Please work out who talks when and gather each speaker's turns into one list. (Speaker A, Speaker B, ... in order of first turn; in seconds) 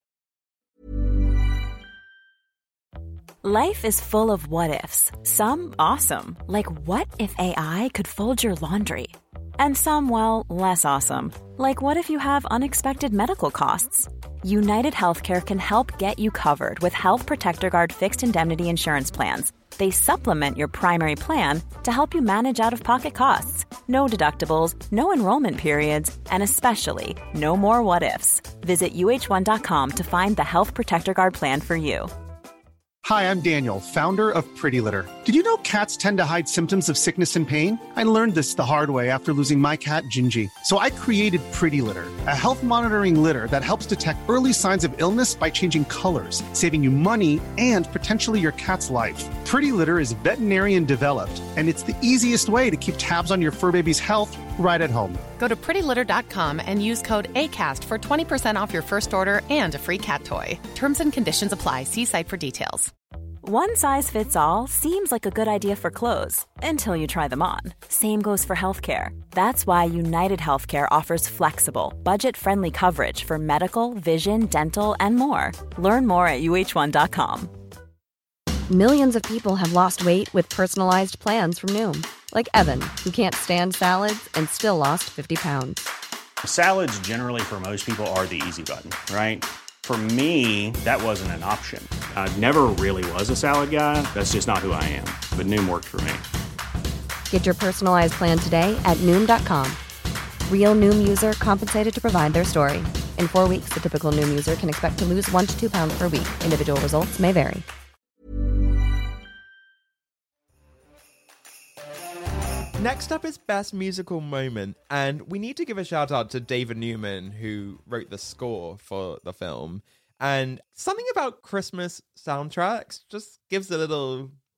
Speaker A: 3.4-32.1, 63.4-77.5
Speaker B: 33.0-55.2
Speaker C: 55.4-62.9
Speaker D: 78.7-85.9, 97.3-99.8, 100.5-107.7
Speaker E: 86.4-96.2
Speaker F: 112.8-124.4